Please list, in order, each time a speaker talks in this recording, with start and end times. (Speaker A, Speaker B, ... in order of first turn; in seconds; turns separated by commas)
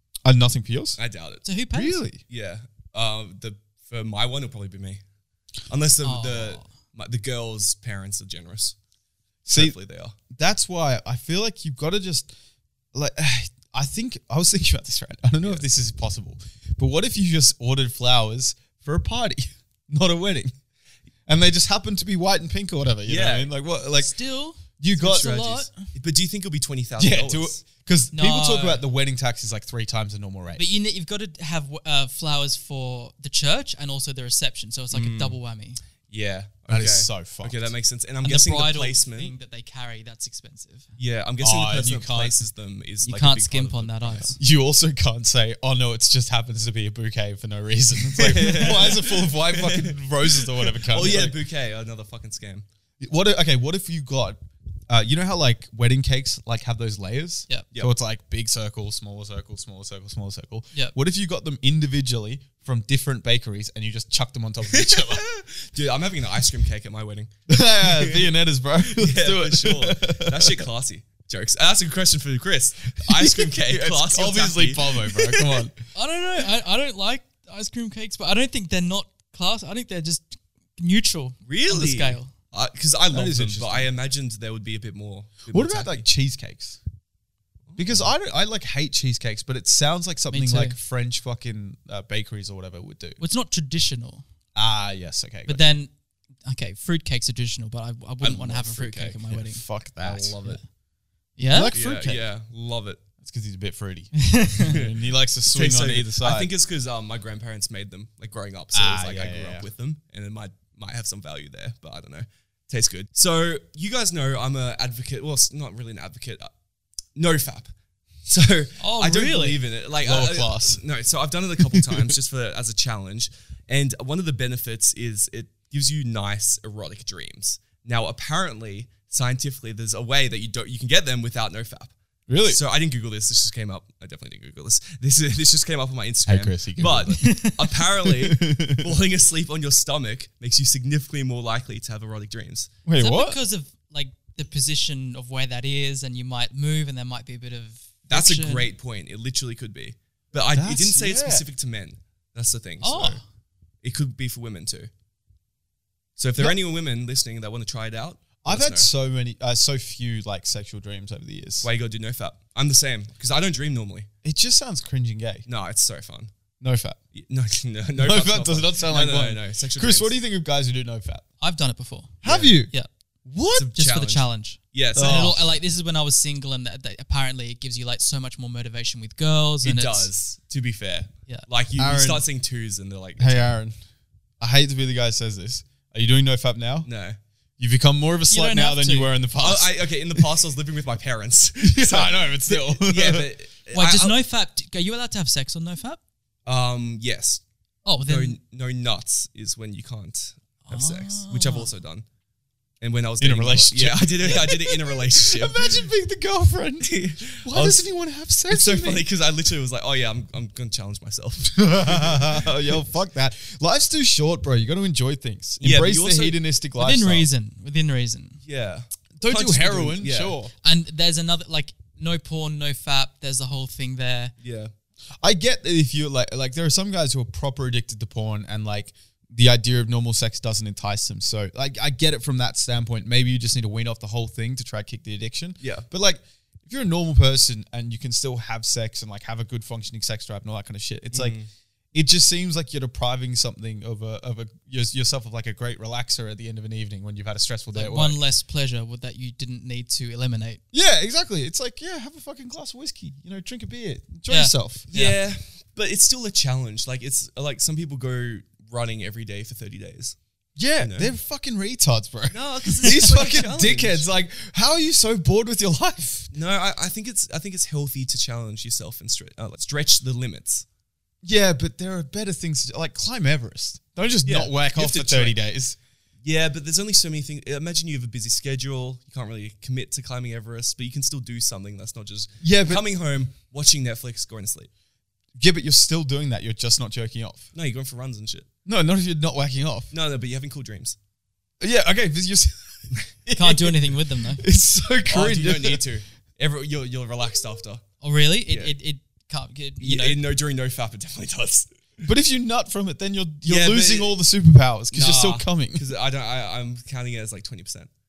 Speaker A: 0.2-1.0, Speaker B: 1.0-1.4, Speaker C: 1.4-2.0, Speaker A: 1.7-2.2, Speaker B: 2.3-5.0, Speaker B: 5.7-8.7, Speaker C: 6.0-6.7, Speaker A: 9.4-9.7, Speaker B: 9.5-10.1, Speaker A: 10.3-12.3, Speaker A: 12.9-20.5, Speaker A: 21.3-24.1, Speaker B: 23.0-23.5, Speaker C: 24.0-25.7, Speaker A: 24.8-25.7, Speaker B: 25.0-27.6, Speaker A: 27.0-30.6, Speaker C: 28.1-28.8, Speaker C: 30.6-35.8, Speaker B: 34.9-35.4, Speaker B: 36.1-39.3, Speaker A: 36.7-37.7, Speaker C: 38.2-40.9, Speaker B: 41.0-44.3, Speaker A: 41.4-42.4, Speaker C: 43.0-44.4, Speaker A: 44.4-51.4, Speaker B: 48.0-52.6, Speaker A: 53.0-54.4, Speaker A: 54.9-65.2, Speaker B: 64.7-68.3, Speaker A: 67.5-70.7, Speaker B: 68.9-75.7, Speaker A: 72.9-75.7, Speaker C: 76.0-82.3, Speaker B: 81.5-86.0, Speaker A: 83.1-83.9, Speaker A: 85.5-86.8, Speaker B: 87.7-88.1, Speaker A: 87.8-93.2, Speaker C: 90.3-90.8, Speaker C: 93.2-94.2, Speaker A: 94.5-95.8, Speaker C: 95.5-95.9, Speaker C: 96.5-99.6, Speaker B: 98.2-99.2, Speaker A: 99.3-100.6, Speaker B: 100.0-100.6, Speaker C: 101.4-101.8, Speaker A: 101.5-102.3, Speaker B: 101.7-103.0, Speaker A: 103.2-106.5, Speaker C: 104.2-104.8, Speaker B: 104.6-104.9, Speaker B: 105.5-116.5, Speaker A: 108.7-109.7, Speaker B: 117.1-117.7, Speaker B: 118.2-131.9, Speaker C: 118.8-119.6, Speaker A: 120.0-120.8, Speaker A: 121.7-122.1, Speaker A: 132.3-132.6, Speaker B: 132.4-142.7, Speaker A: 136.2-137.3, Speaker C: 137.1-137.8, Speaker A: 138.0-138.9, Speaker A: 142.8-143.4, Speaker C: 143.0-148.7, Speaker B: 148.1-153.2, Speaker A: 150.5-151.4, Speaker C: 152.8-153.2, Speaker B: 153.8-154.9, Speaker B: 156.2-158.9, Speaker A: 158.4-161.7, Speaker B: 161.6-164.1, Speaker A: 164.2-165.5, Speaker B: 165.5-166.3, Speaker A: 166.6-167.0, Speaker B: 167.1-170.2, Speaker A: 168.0-171.2, Speaker C: 171.4-172.9, Speaker A: 172.2-172.7, Speaker B: 172.2-172.5, Speaker A: 173.2-173.7, Speaker B: 173.5-175.4, Speaker C: 173.7-180.1, Speaker A: 174.9-175.5, Speaker B: 179.6-183.5, Speaker A: 181.8-182.2, Speaker A: 183.2-183.8, Speaker A: 184.4-186.9, Speaker B: 186.8-187.2, Speaker A: 187.6-190.2, Speaker C: 188.3-189.2, Speaker B: 189.4-194.2, Speaker A: 191.6-193.3, Speaker C: 193.7-196.0, Speaker B: 196.4-197.4, Speaker C: 197.8-198.4, Speaker B: 198.1-202.1, Speaker C: 200.7-201.7, Speaker B: 202.8-205.9, Speaker A: 203.2-209.1, Speaker B: 206.8-207.9, Speaker B: 208.5-212.5, Speaker A: 211.5-217.3, Speaker B: 215.6-216.4, Speaker C: 216.8-218.4, Speaker B: 218.4-220.4, Speaker A: 219.2-220.5, Speaker C: 220.6-224.3, Speaker B: 224.4-224.7, Speaker A: 225.2-241.4, Speaker B: 235.6-235.8, Speaker B: 241.1-241.5, Speaker A: 241.9-248.2, Speaker C: 247.7-250.6, Speaker A: 250.7-254.9, Speaker C: 254.3-255.2, Speaker B: 254.9-260.1, Speaker A: 260.6-266.3, Speaker B: 260.8-261.1, Speaker B: 262.3-264.1, Speaker B: 266.3-270.6, Speaker A: 271.2-275.8, Speaker B: 274.2-275.4, Speaker B: 276.2-284.7, Speaker A: 282.4-282.8, Speaker A: 285.4-287.5, Speaker B: 287.5-288.5, Speaker A: 288.6-289.9, Speaker B: 289.9-291.0, Speaker A: 291.6-293.7, Speaker C: 293.3-294.4, Speaker A: 294.4-295.8, Speaker B: 295.1-297.8, Speaker C: 298.0-300.2, Speaker B: 298.5-298.7, Speaker B: 299.8-301.7, Speaker A: 302.0-305.8, Speaker B: 303.4-304.2, Speaker B: 304.9-307.9